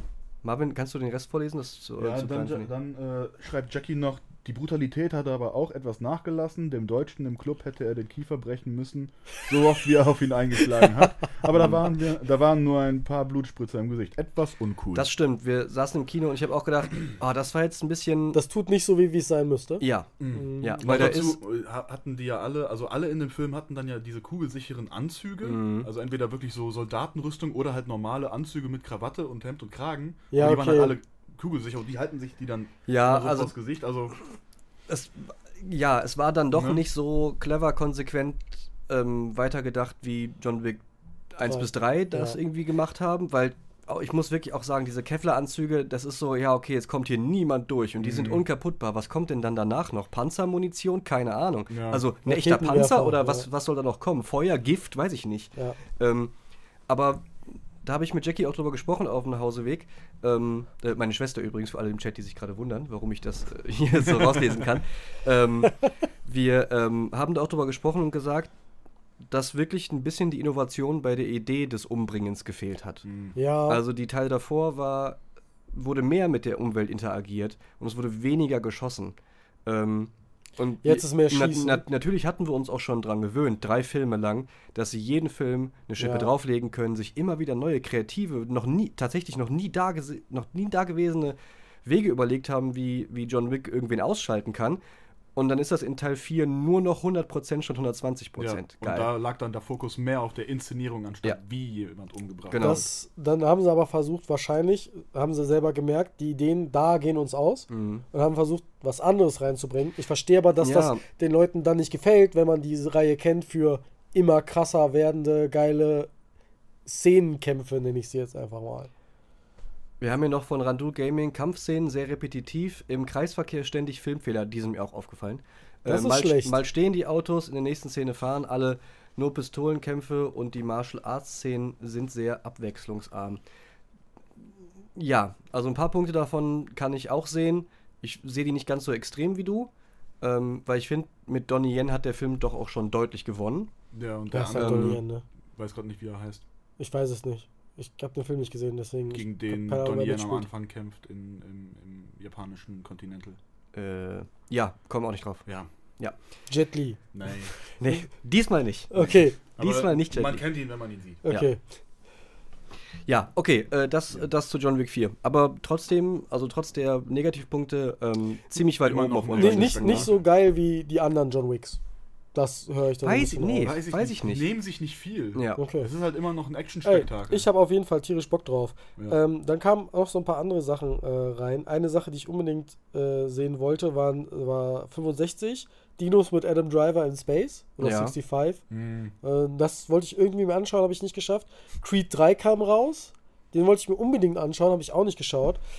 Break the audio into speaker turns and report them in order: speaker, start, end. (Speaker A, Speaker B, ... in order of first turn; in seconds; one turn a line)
Speaker A: 0.4-2.7
Speaker B: 2.0-15.1
Speaker A: 14.9-18.4
Speaker C: 18.3-21.1
Speaker A: 19.8-21.4
Speaker B: 20.2-34.1
Speaker A: 25.4-25.9
Speaker C: 30.3-30.9
Speaker A: 32.9-33.5
Speaker A: 34.9-40.8
Speaker B: 36.5-36.8
Speaker A: 41.3-56.3
Speaker C: 41.5-42.4
Speaker B: 48.0-48.4
Speaker B: 51.7-52.0
Speaker C: 52.2-53.5
Speaker A: 56.9-68.5
Speaker A: 69.3-73.1
Speaker B: 73.0-73.3
Speaker C: 73.3-73.8
Speaker A: 73.7-75.2
Speaker A: 75.7-79.1
Speaker A: 79.7-94.8
Speaker C: 80.8-81.8
Speaker C: 86.0-86.3
Speaker A: 95.3-99.1
Speaker B: 98.4-102.9
Speaker A: 102.5-102.8
Speaker C: 102.6-116.1
Speaker A: 107.7-108.0
Speaker A: 110.6-111.0
Speaker C: 116.8-118.9
Speaker A: 120.0-133.4
Speaker C: 125.8-126.6
Speaker A: 134.9-139.7
Speaker A: 140.2-143.7
Speaker B: 143.9-145.0
Speaker C: 144.3-145.2
Speaker A: 144.5-145.0
Speaker B: 145.5-146.4
Speaker C: 146.8-150.5
Speaker B: 149.1-153.4
Speaker A: 153.7-155.5
Speaker C: 156.5-157.0
Speaker B: 157.1-157.5
Speaker A: 157.8-160.4
Speaker C: 158.9-159.4
Speaker B: 159.0-161.2
Speaker C: 161.2-161.6
Speaker A: 163.1-170.1
Speaker B: 168.8-170.2
Speaker C: 169.3-171.8
Speaker C: 172.3-173.8
Speaker A: 173.0-174.5
Speaker B: 173.6-177.5
Speaker A: 175.3-175.6
Speaker C: 175.6-175.9
Speaker C: 176.8-188.6
Speaker A: 187.8-188.1
Speaker B: 188.7-189.1
Speaker C: 189.2-195.6